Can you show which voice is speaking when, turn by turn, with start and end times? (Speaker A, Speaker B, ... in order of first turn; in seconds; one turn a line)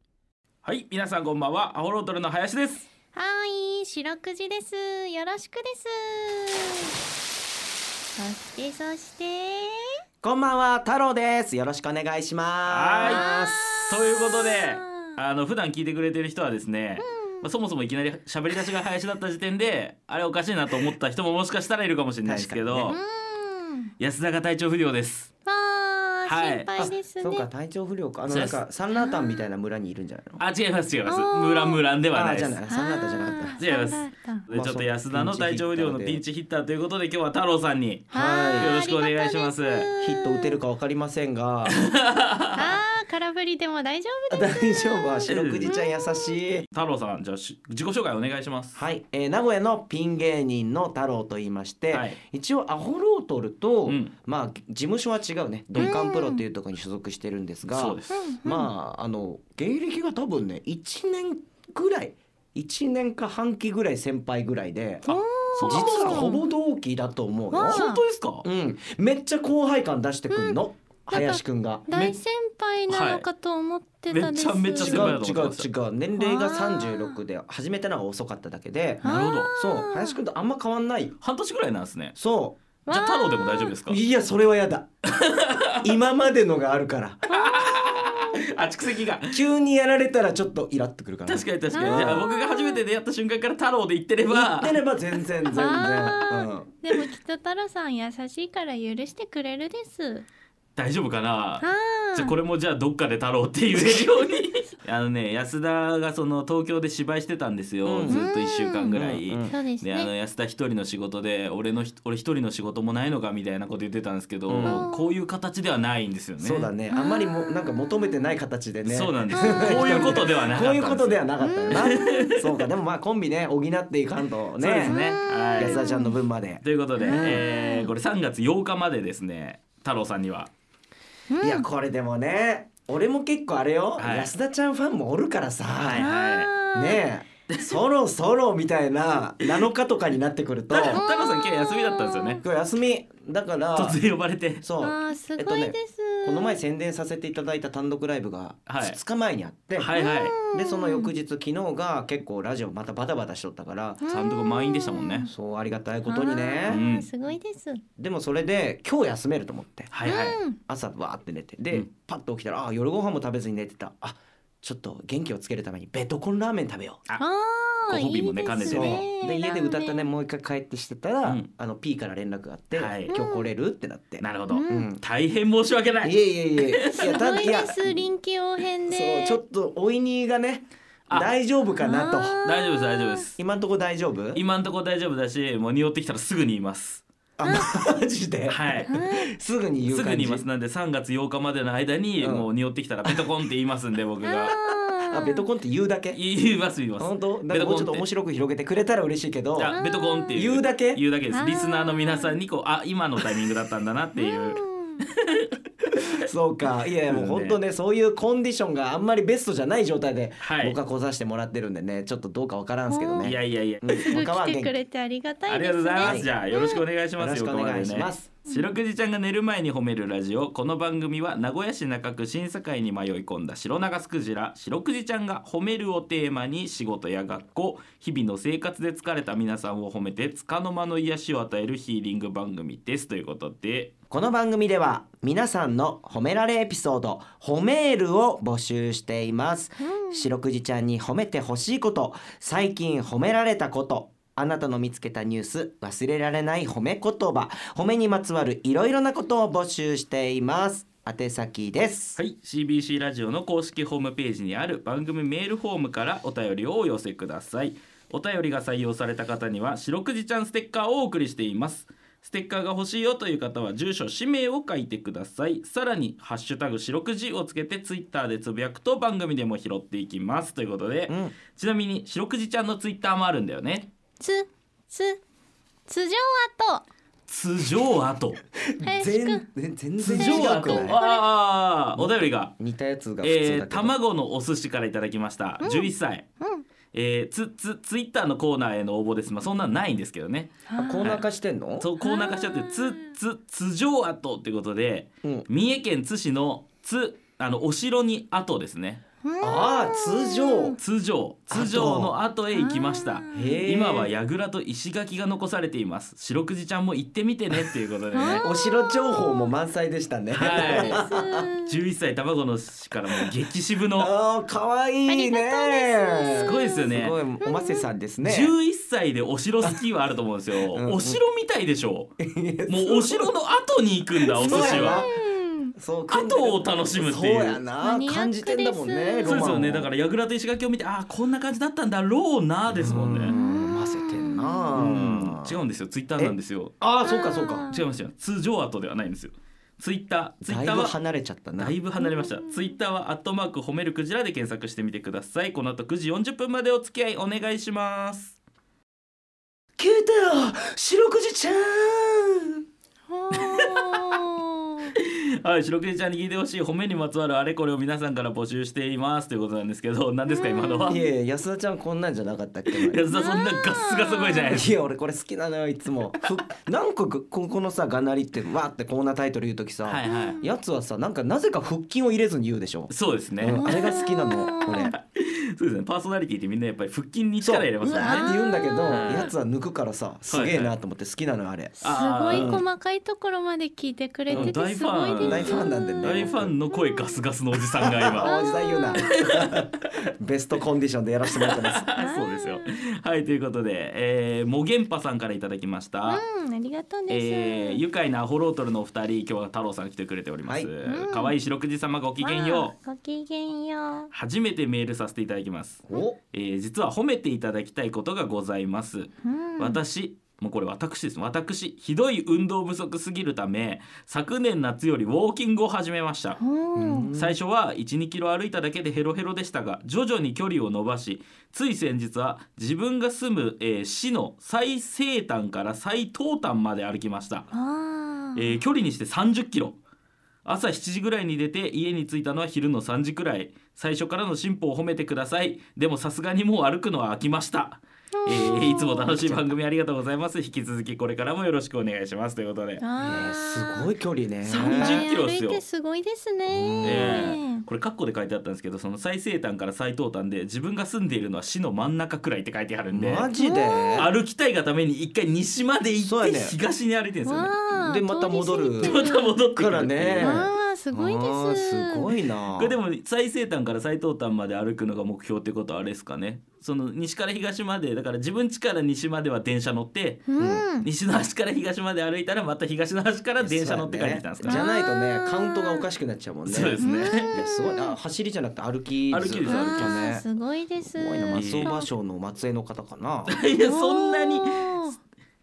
Speaker A: 0.6-2.9
Speaker B: 3.1-6.9
Speaker B: 8.2-10.0
Speaker C: 10.2-13.9
Speaker A: 12.7-13.2
Speaker B: 13.0-15.2
Speaker A: 13.9-23.0
Speaker B: 17.0-17.5
Speaker C: 22.2-22.9
Speaker B: 22.9-23.9
Speaker A: 24.0-25.3
Speaker B: 25.4-27.5
Speaker A: 26.2-26.7
Speaker C: 26.8-30.4
Speaker A: 28.3-28.6
Speaker B: 28.9-29.5
Speaker A: 30.4-32.6
Speaker B: 31.0-31.8
Speaker C: 32.1-33.6
Speaker B: 32.7-34.5
Speaker A: 33.6-39.9
Speaker C: 34.5-36.2
Speaker B: 38.1-40.6
Speaker C: 38.1-38.7
Speaker C: 40.0-41.8
Speaker A: 41.7-42.8
Speaker B: 42.5-46.4
Speaker C: 44.3-46.6
Speaker A: 45.3-45.8
Speaker A: 46.6-48.8
Speaker C: 48.7-65.1
Speaker A: 51.9-52.2
Speaker A: 53.8-54.1
Speaker B: 55.8-56.4
Speaker A: 57.6-58.3
Speaker B: 58.1-58.7
Speaker A: 65.0-66.4
Speaker B: 65.1-66.4
Speaker C: 65.6-67.8
Speaker B: 67.5-68.0
Speaker A: 67.6-68.5
Speaker C: 68.4-72.1
Speaker B: 70.3-75.2
Speaker A: 72.9-73.2
Speaker A: 74.1-75.7
Speaker C: 74.8-81.1
Speaker B: 76.2-77.2
Speaker A: 79.0-79.5
Speaker B: 79.0-80.2
Speaker A: 81.2-82.1
Speaker C: 82.1-82.6
Speaker B: 82.8-83.7
Speaker A: 82.9-84.0
Speaker C: 83.8-84.9
Speaker A: 85.1-85.8
Speaker C: 85.8-87.2
Speaker A: 87.3-89.4
Speaker B: 87.3-87.8
Speaker C: 89.3-92.2
Speaker A: 91.2-94.8
Speaker B: 91.7-92.8
Speaker C: 94.3-96.7
Speaker B: 95.4-100.2
Speaker A: 100.8-116.7
Speaker B: 101.6-102.3
Speaker C: 107.8-108.2
Speaker B: 108.1-108.9
Speaker C: 108.9-109.5
Speaker B: 109.5-110.1
Speaker C: 114.5-114.8
Speaker B: 114.6-115.2
Speaker C: 116.4-125.0
Speaker B: 116.9-118.4
Speaker A: 118.8-121.2
Speaker B: 121.4-122.3
Speaker A: 121.8-122.4
Speaker A: 124.6-125.8
Speaker B: 124.8-126.2
Speaker C: 125.6-127.4
Speaker A: 126.6-130.5
Speaker B: 127.0-127.9
Speaker B: 131.3-131.7
Speaker C: 131.4-136.0
Speaker A: 134.0-134.3
Speaker A: 135.7-136.5
Speaker B: 135.9-137.0
Speaker C: 136.7-141.0
Speaker A: 140.7-142.4
Speaker B: 140.8-142.4
Speaker C: 142.4-144.0
Speaker A: 143.7-144.7
Speaker C: 144.6-149.9
Speaker B: 144.8-146.6
Speaker A: 148.7-149.0
Speaker A: 149.8-150.4
Speaker B: 149.9-151.1
Speaker C: 150.5-154.0
Speaker B: 154.0-155.3
Speaker A: 154.1-155.3
Speaker C: 155.3-156.8
Speaker B: 156.1-157.8
Speaker A: 156.7-157.1
Speaker C: 158.0-159.9
Speaker A: 159.9-160.4
Speaker B: 160.0-160.6
Speaker C: 160.7-167.0
Speaker B: 167.2-170.1
Speaker A: 167.9-169.0
Speaker C: 168.6-175.0
Speaker A: 171.2-171.5
Speaker A: 172.7-173.1
Speaker B: 173.1-173.5
Speaker A: 174.2-177.5
Speaker B: 174.5-174.9
Speaker C: 176.0-178.1
Speaker B: 176.9-179.4
Speaker C: 178.9-182.4
Speaker A: 181.1-181.3
Speaker B: 181.8-183.3
Speaker A: 182.4-183.3
Speaker C: 183.3-184.4
Speaker A: 184.3-187.0
Speaker C: 187.4-190.4
Speaker B: 187.4-187.8
Speaker A: 188.5-189.0
Speaker B: 188.8-189.3
Speaker A: 189.8-194.5
Speaker C: 192.2-192.5
Speaker B: 194.2-195.4
Speaker C: 194.5-196.2
Speaker A: 196.1-198.1
Speaker C: 197.0-199.7
Speaker A: 199.6-206.0
Speaker B: 199.7-200.3
Speaker C: 200.3-201.0
Speaker B: 201.3-202.4
Speaker B: 204.2-205.1
Speaker C: 206.2-214.7
Speaker A: 207.1-207.6
Speaker A: 210.4-210.8
Speaker B: 212.9-213.3
Speaker A: 213.2-214.1
Speaker B: 214.0-216.8
Speaker A: 215.5-233.9
Speaker C: 216.0-216.3
Speaker C: 217.2-218.4
Speaker B: 218.5-218.7
Speaker C: 234.1-252.2
Speaker B: 239.8-240.3
Speaker A: 252.1-273.9
Speaker C: 271.1-271.3
Speaker B: 274.2-275.2
Speaker B: 275.9-276.9
Speaker A: 277.3-278.4
Speaker C: 278.7-281.0
Speaker B: 278.8-279.4
Speaker A: 280.0-282.6
Speaker B: 280.1-281.3
Speaker C: 281.9-283.9
Speaker A: 283.2-286.2
Speaker B: 285.6-286.6
Speaker A: 286.9-291.2
Speaker B: 290.6-291.1
Speaker C: 290.8-291.9
Speaker A: 291.8-299.0
Speaker B: 292.0-293.1
Speaker B: 299.2-300.8
Speaker C: 299.4-300.8
Speaker A: 300.8-308.4
Speaker C: 301.5-302.2
Speaker B: 302.5-303.6
Speaker C: 303.3-304.1
Speaker B: 308.1-309.5
Speaker C: 308.4-311.5
Speaker A: 310.3-311.0
Speaker B: 310.4-311.8
Speaker A: 311.6-314.1
Speaker C: 313.1-313.3
Speaker C: 313.9-318.5
Speaker B: 315.1-317.9
Speaker A: 316.3-317.2
Speaker A: 318.2-322.1
Speaker C: 320.7-321.2
Speaker C: 322.2-323.4
Speaker A: 322.7-325.1
Speaker C: 324.2-325.1
Speaker B: 324.4-325.7
Speaker C: 325.8-329.9
Speaker A: 326.1-327.6
Speaker B: 327.8-329.6
Speaker A: 329.2-333.4
Speaker C: 332.7-335.6
Speaker B: 333.2-334.7
Speaker A: 334.7-336.7
Speaker C: 336.2-337.7
Speaker B: 337.0-337.9
Speaker A: 337.7-341.0
Speaker C: 340.4-341.8
Speaker A: 341.6-348.4
Speaker B: 342.0-342.8
Speaker C: 349.8-352.6
Speaker B: 353.1-354.9
Speaker A: 353.4-354.1
Speaker A: 354.9-361.0
Speaker B: 360.3-361.1
Speaker C: 360.9-363.0
Speaker A: 362.7-364.7
Speaker B: 363.1-364.6
Speaker C: 364.5-374.9
Speaker A: 369.8-370.4
Speaker B: 370.0-370.5
Speaker A: 372.9-378.3
Speaker B: 373.5-374.9
Speaker C: 377.4-381.7
Speaker B: 377.9-379.3
Speaker A: 378.9-379.3
Speaker A: 380.3-380.8
Speaker B: 381.8-386.1
Speaker A: 381.8-382.6
Speaker C: 382.3-382.6
Speaker A: 384.3-388.3
Speaker C: 384.3-384.5
Speaker C: 385.2-386.5
Speaker B: 386.7-387.2
Speaker C: 387.8-391.9
Speaker B: 388.2-389.1
Speaker A: 388.9-389.5
Speaker A: 391.3-396.2
Speaker B: 391.9-392.8
Speaker B: 396.1-397.8
Speaker A: 397.1-402.8
Speaker C: 400.5-400.7
Speaker B: 400.8-401.3
Speaker B: 402.2-404.1
Speaker A: 404.1-416.4
Speaker C: 405.9-406.2
Speaker B: 409.2-409.8
Speaker B: 416.4-417.1
Speaker C: 416.8-417.4
Speaker A: 417.1-427.5
Speaker B: 427.5-428.6
Speaker A: 428.3-429.8
Speaker A: 430.4-442.8
Speaker B: 438.2-439.4
Speaker B: 442.8-443.9
Speaker C: 443.0-445.1
Speaker A: 444.4-445.6
Speaker B: 444.5-447.6
Speaker C: 446.5-447.3
Speaker A: 446.8-453.3
Speaker C: 452.9-454.1
Speaker B: 453.4-454.1
Speaker A: 453.9-457.6
Speaker C: 456.0-456.6
Speaker B: 457.2-459.4
Speaker C: 457.7-462.8
Speaker A: 458.8-460.4
Speaker B: 460.2-462.1
Speaker A: 462.6-474.6
Speaker B: 470.3-470.9
Speaker C: 470.4-470.6
Speaker C: 473.4-476.8
Speaker B: 474.5-475.9
Speaker A: 476.4-477.3
Speaker B: 476.8-478.0
Speaker C: 477.3-480.2
Speaker A: 479.1-480.0
Speaker B: 479.4-481.9
Speaker C: 480.8-483.4
Speaker A: 481.3-481.7
Speaker A: 483.3-484.9
Speaker B: 483.6-484.9